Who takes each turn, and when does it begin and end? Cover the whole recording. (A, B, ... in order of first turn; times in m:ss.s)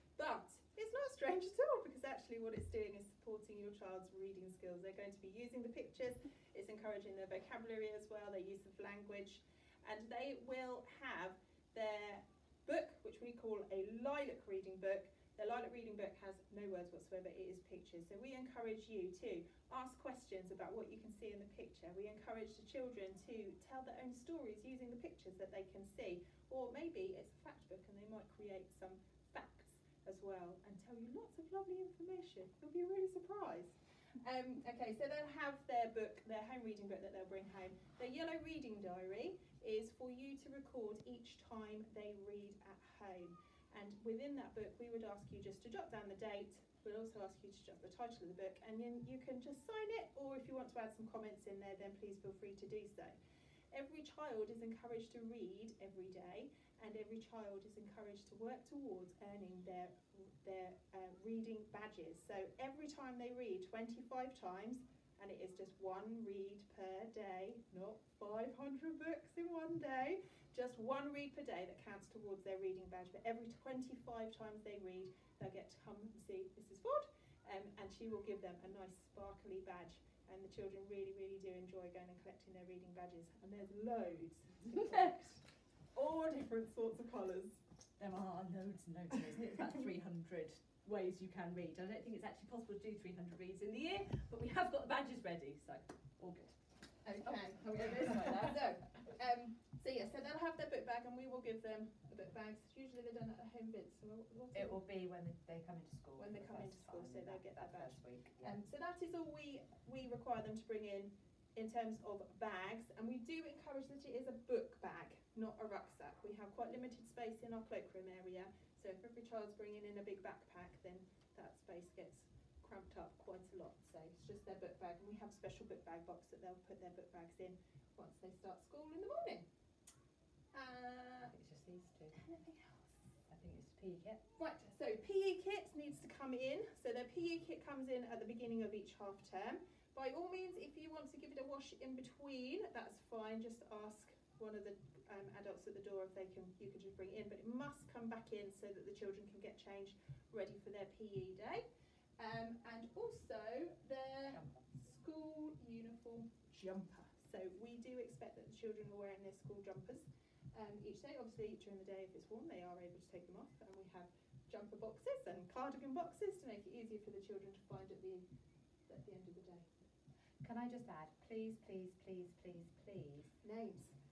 0:00.2-0:53.2 A
0:53.7-1:25.4 A
1:25.9-1:27.6 A
1:28.0-1:36.6 B
1:37.0-1:44.8 A
1:38.0-1:38.4 B
1:44.5-1:48.6 C
1:46.2-2:09.4 A
2:10.5-2:11.4 A
2:11.3-2:12.2 C
2:12.1-2:13.0 A
2:13.3-2:14.2 C
2:14.4-2:31.6 A
2:32.2-2:48.2 A
2:34.3-2:34.7 C
2:48.9-2:49.7 A
2:50.4-2:53.3 C
2:53.4-2:53.9 A